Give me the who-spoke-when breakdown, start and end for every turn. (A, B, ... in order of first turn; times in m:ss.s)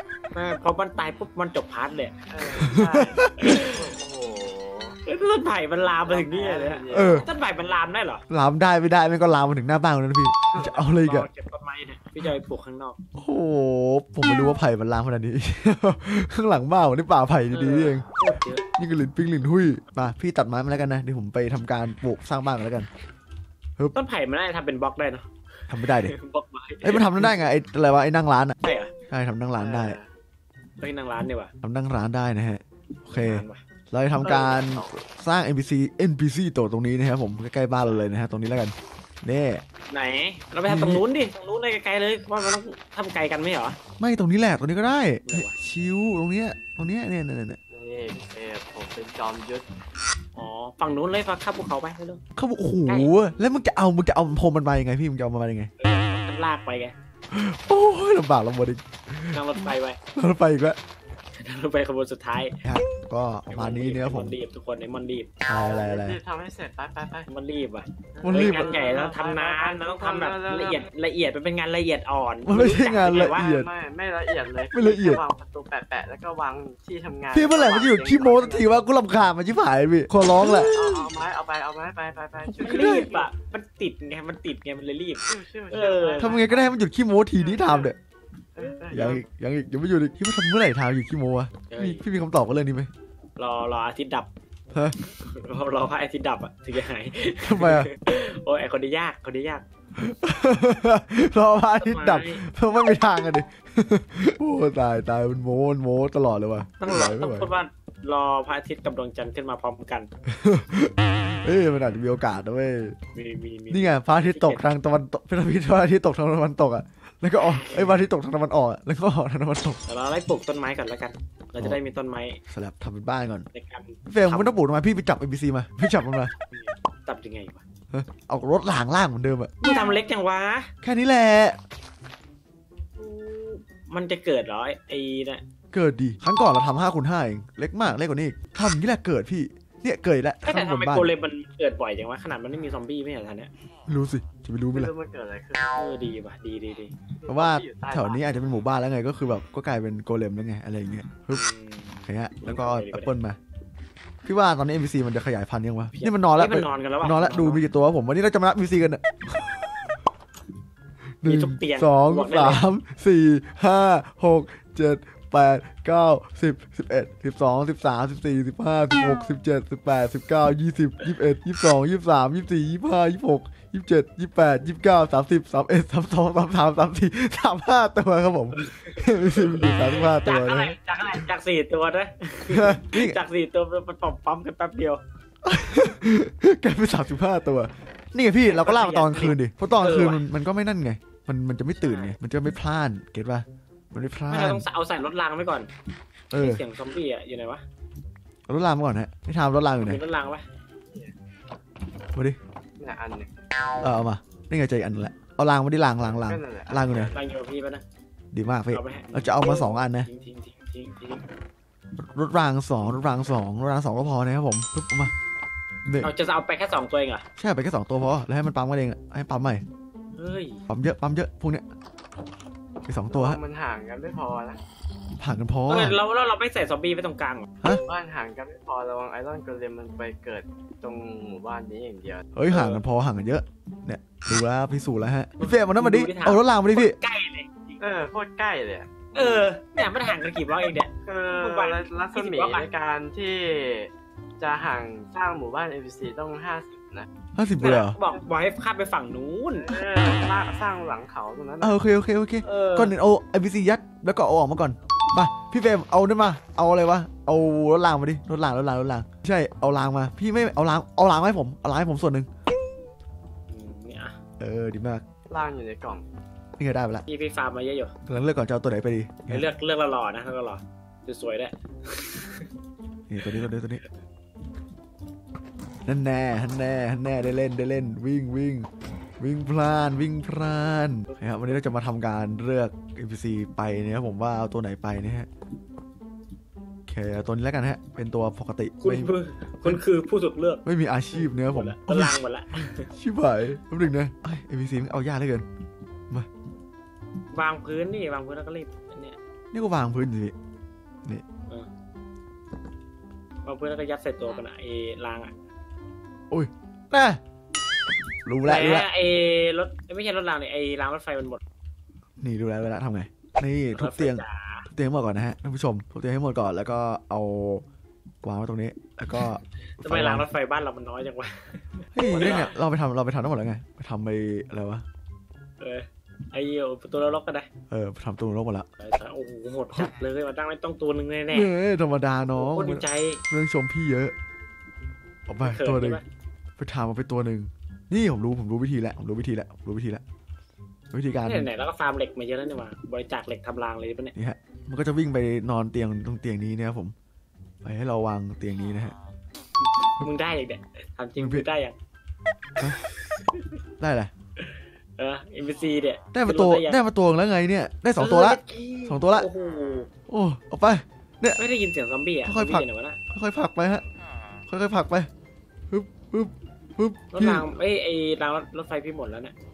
0:00.3-0:02.2 A
0:02.3-0:05.0 B
0:02.6-0:03.6 C
0:03.3-0:03.9 A
0:05.0-0:08.2 A
0:06.1-0:07.3 B
0:06.9-0:07.3 C
0:08.3-0:11.3 C
0:10.6-0:13.0 A
0:13.2-0:18.1 C
0:17.5-0:18.6 A
0:18.8-0:22.9 C
0:23.9-0:27.5 A
0:25.7-0:26.1 C
0:26.8-0:28.6 C
0:28.6-0:28.9 A
0:29.1-0:30.0 C
0:29.6-0:30.1 B
0:30.8-0:31.5 A
0:31.6-0:39.6 C
0:33.1-0:33.6 A
0:34.2-0:35.0 B
0:39.9-0:43.8 A
0:40.6-0:41.0 C
0:44.0-0:47.6 C
0:45.3-0:45.5 A
0:47.7-0:49.6 B
0:50.4-0:52.2 A
0:52.4-0:55.7 C
0:52.9-0:53.1 A
0:55.8-0:56.9 A
0:57.3-1:00.8 C
0:59.3-1:00.0 A
1:01.4-1:02.6 A
1:02.6-1:04.4 C
1:03.5-1:05.3 A
1:05.5-1:06.2 C
1:05.6-1:07.3 B
1:07.3-1:13.4 A
1:08.2-1:10.9 B
1:08.2-1:08.7 C
1:12.4-1:13.7 C
1:13.0-1:18.9 B
1:14.7-1:15.2 C
1:17.3-1:20.8 C
1:20.4-1:20.8 A
1:20.7-1:23.3 B
1:22.5-1:23.1 C
1:22.6-1:26.4 A
1:25.3-1:26.8 B
1:26.2-1:28.0 C
1:27.4-1:27.9 B
1:28.6-1:29.2 B
1:28.9-1:32.9 C
1:28.9-1:29.2 A
1:31.7-1:32.0 A
1:33.4-1:34.3 A
1:35.0-1:39.6 A
1:37.4-1:37.9 C
1:40.0-1:47.5 C
1:41.8-1:42.4 A
1:46.8-1:50.1 A
1:50.3-1:53.0 C
1:53.2-1:54.6 A
1:53.7-1:59.8 C
1:57.4-1:58.0 A
1:59.9-2:02.4 A
2:02.5-2:03.5 C
2:03.5-2:04.6 A
2:04.1-2:06.3 C
2:06.5-2:07.6 A
2:07.9-2:09.5 C
2:09.6-2:10.7 A
2:10.8-2:11.6 C
2:13.0-2:15.4 A
2:15.7-2:21.1 C
2:20.4-2:23.5 A
2:23.9-2:24.9 C
2:24.7-2:25.8 B
2:25.8-2:26.9 A
2:27.2-2:28.2 B
2:27.3-2:31.4 C
2:31.4-2:33.1 A
2:32.0-2:33.4 C
2:34.2-2:39.9 C
2:35.9-2:37.6 A
2:41.2-3:00.8 C
2:41.2-2:42.6 A
2:58.6-3:05.0 A
3:02.5-3:03.2 C
3:05.4-3:14.6 C
3:08.5-3:10.3 A
3:11.8-3:12.2 A
3:14.3-3:15.7 A
3:16.3-3:16.6 C
3:16.3-3:17.6 A
3:18.5-3:20.0 C
3:19.8-3:20.4 A
3:22.8-3:23.3 B
3:23.8-3:27.2 C
3:26.1-3:27.2 B
3:27.1-3:27.8 A
3:28.3-3:30.1 C
3:28.7-3:31.2 A
3:32.0-3:35.1 C
3:35.8-3:36.1 C
3:36.0-3:37.2 A
3:37.4-3:39.6 C
3:40.2-3:40.6 A
3:40.7-3:41.6 C
3:42.8-3:43.4 C
3:43.1-3:44.6 B
3:45.2-3:46.0 C
3:45.7-3:47.5 A
3:47.9-3:52.8 B
3:52.4-3:57.0 C
3:55.4-3:57.8 A
3:57.8-3:59.4 B
3:59.1-4:02.7 A
4:01.1-4:07.1 B
4:07.4-4:08.0 C
4:07.6-4:09.8 A
4:09.6-4:11.8 B
4:11.6-4:22.3 C
4:12.4-4:12.9 A
4:23.5-4:24.2 A
4:24.4-4:25.0 C
4:25.3-4:26.0 B
4:26.6-4:27.0 C
4:27.1-4:27.9 A
4:28.1-4:29.5 C
4:29.3-4:32.5 A
4:33.1-4:33.8 C
4:35.8-4:45.3 C
4:41.1-4:41.6 A
4:46.9-4:49.8 C
4:48.8-4:52.9 A
4:50.6-4:52.2 C
4:52.8-4:55.5 C
4:57.3-4:59.2 A
4:59.5-5:00.4 C
5:03.4-5:05.3 A
5:06.3-5:07.2 C
5:08.2-5:08.9 C
5:08.4-5:11.4 A
5:12.2-5:17.6 C
5:13.7-5:14.7 A
5:18.2-5:20.3 C
5:19.8-5:22.5 A
5:22.0-5:24.8 C
5:22.1-5:22.5 B
5:25.6-5:27.5 A
5:27.7-5:28.7 C
5:28.8-5:31.5 A
5:31.3-5:34.1 C
5:32.3-5:33.2 A
5:35.3-5:36.0 C
5:35.4-5:36.0 A
5:36.6-5:40.0 C
5:40.9-5:41.5 C
5:41.2-5:44.1 A
5:44.2-5:46.9 C
5:47.6-5:49.0 C
5:50.0-5:51.8 A
5:51.2-5:51.5 C
5:52.6-5:53.6 A
5:53.8-5:54.1 C
5:54.4-5:56.8 A
5:56.1-5:59.3 C
5:58.0-5:59.9 A
6:00.1-6:01.4 C
6:01.4-6:03.0 A
6:02.2-6:03.8 C
6:04.5-6:05.1 C
6:05.7-6:07.5 C
6:07.1-6:09.3 A